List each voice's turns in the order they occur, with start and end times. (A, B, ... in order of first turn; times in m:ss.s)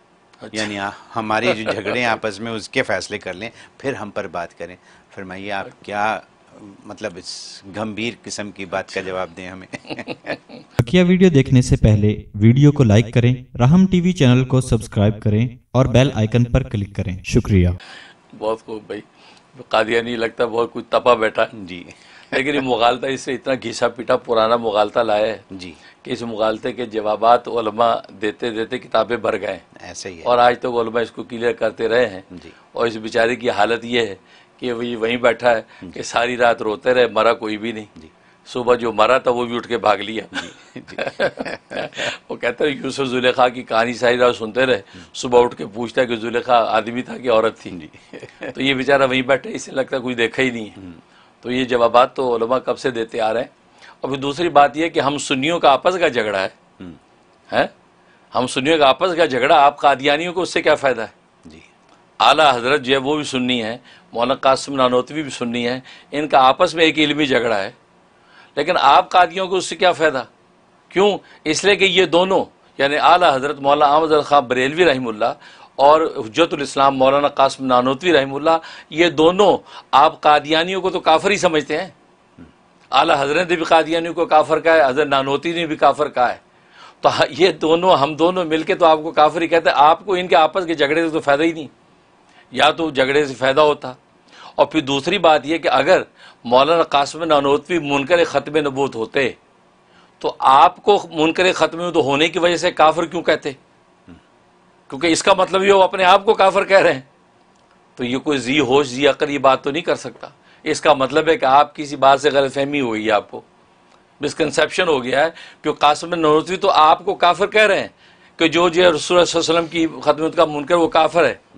0:00.4-0:00.7 A
0:00.5-0:10.4 B
0:10.8-0:17.8 C
0:18.3-0:21.5 A
0:21.5-0:22.4 B
0:22.3-0:25.4 A
0:25.5-0:25.8 B
0:26.0-0:29.6 A
0:29.8-0:30.3 B
0:30.2-0:37.9 A
0:38.5-0:47.8 A
0:40.4-0:42.0 B
0:47.7-0:48.6 B
0:48.5-0:50.8 A
0:51.4-0:53.5 A
0:54.0-0:56.6 A
0:58.3-1:01.1 A
1:02.2-1:07.8 A
1:08.6-1:10.3 A
1:10.9-1:21.9 A
1:22.9-1:26.4 A
1:27.0-1:31.7 A
1:32.5-1:34.0 A
1:34.6-1:39.4 A
1:40.2-1:43.6 A
1:44.9-1:47.0 A
1:48.0-1:53.4 A
1:54.2-2:01.4 A